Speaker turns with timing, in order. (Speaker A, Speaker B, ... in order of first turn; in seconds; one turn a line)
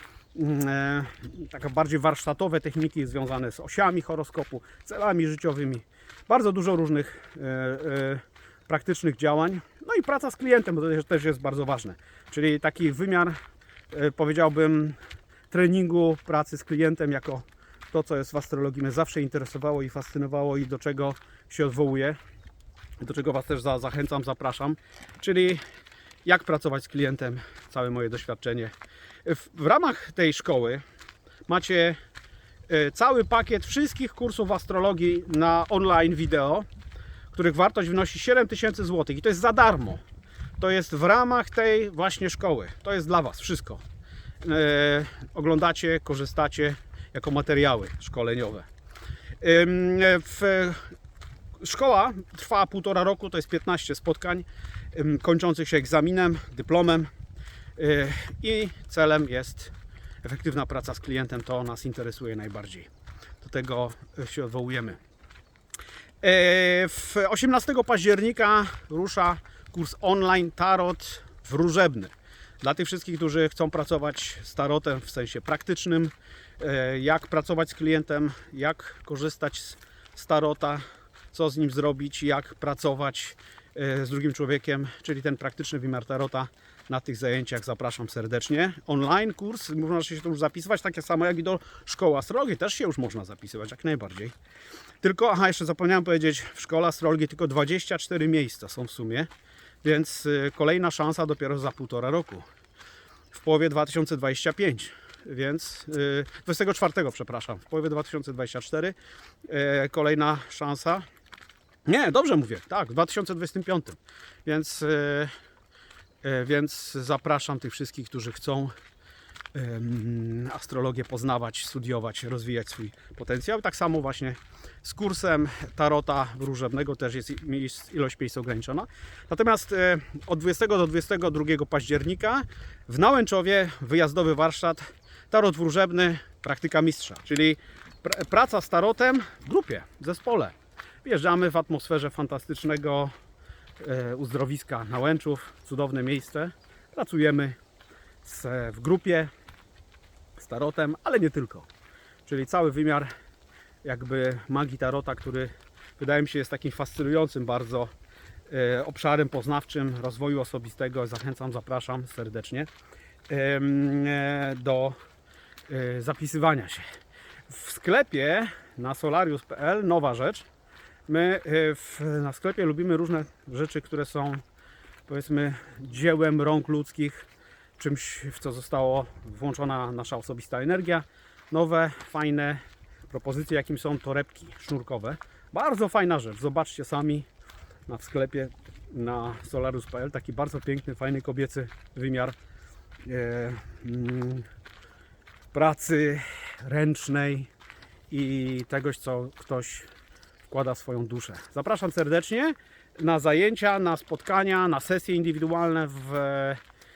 Speaker A: 0.3-13.4
Speaker A: 13.9-15.0
Speaker A: 15.5-22.2
Speaker A: 23.0-25.6
Speaker A: 26.2-28.7
Speaker A: 29.2-30.8
Speaker A: 31.5-32.0
Speaker A: 32.7-36.7
Speaker A: 37.3-40.0
Speaker A: 40.6-43.8
Speaker A: 44.4-48.7
Speaker A: 49.4-50.9
Speaker A: 51.6-57.1
Speaker A: 57.8-62.9
Speaker A: 63.4-65.0
Speaker A: 66.2-94.3
Speaker A: 95.0-99.3
Speaker A: 99.8-102.5
Speaker A: 103.3-111.0
Speaker A: 111.9-115.3
Speaker A: 116.2-118.7
Speaker A: 119.5-143.1
Speaker A: 143.8-147.6
Speaker A: 148.2-149.3
Speaker A: 150.4-151.7
Speaker A: 152.3-153.1
Speaker A: 153.8-157.9
Speaker A: 158.5-162.7
Speaker A: 163.3-165.0
Speaker A: 165.7-166.8
Speaker A: 167.5-170.5
Speaker A: 171.1-174.4
Speaker A: 175.1-177.3
Speaker A: 177.8-187.3
Speaker A: 187.9-192.4
Speaker A: 193.1-194.5
Speaker A: 195.5-197.5
Speaker A: 198.1-199.9
Speaker A: 200.5-206.6